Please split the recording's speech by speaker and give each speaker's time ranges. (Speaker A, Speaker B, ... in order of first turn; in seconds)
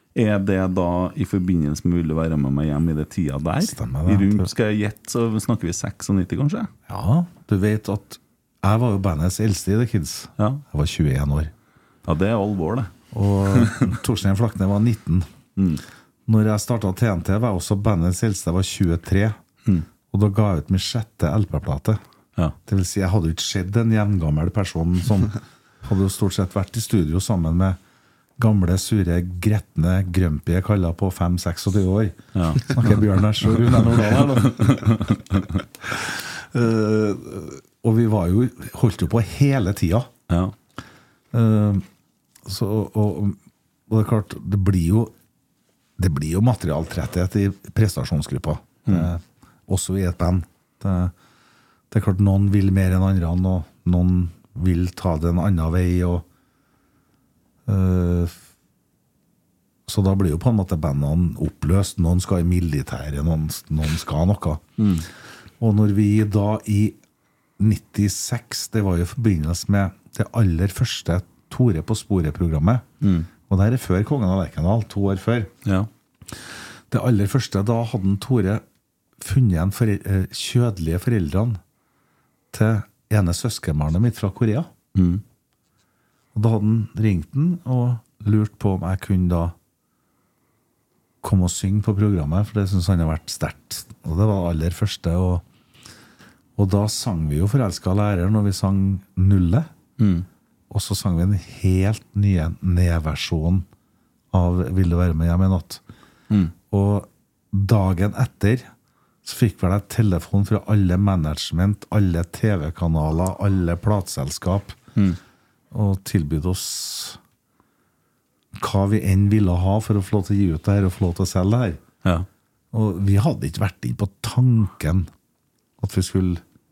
Speaker A: 0.1-6.7, 10.4-10.6, 12.1-12.9, 13.5-13.9, 15.6-15.8, 32.4-33.0, 33.6-35.6, 64.8-65.1, 73.0-73.3, 85.0-85.2, 100.0-100.3
Speaker B: 3.6-4.5, 6.9-11.5, 13.1-15.3, 16.3-19.4, 20.1-22.0, 22.7-27.8, 28.4-35.0, 35.9-40.1, 41.3-41.9, 42.5-43.4, 43.9-45.1, 46.0-51.1, 51.9-56.2, 57.7-58.4, 59.9-64.6, 65.6-67.0, 67.6-72.9, 73.5-75.5, 76.9-78.6, 79.2-81.6, 82.5-84.7, 86.3-89.5, 91.2-95.5, 96.6-99.7, 100.7-103.7, 104.3-105.8, 106.7-108.7, 109.2-114.8, 115.7-117.2, 118.5-121.8, 122.7-125.1, 125.8-126.4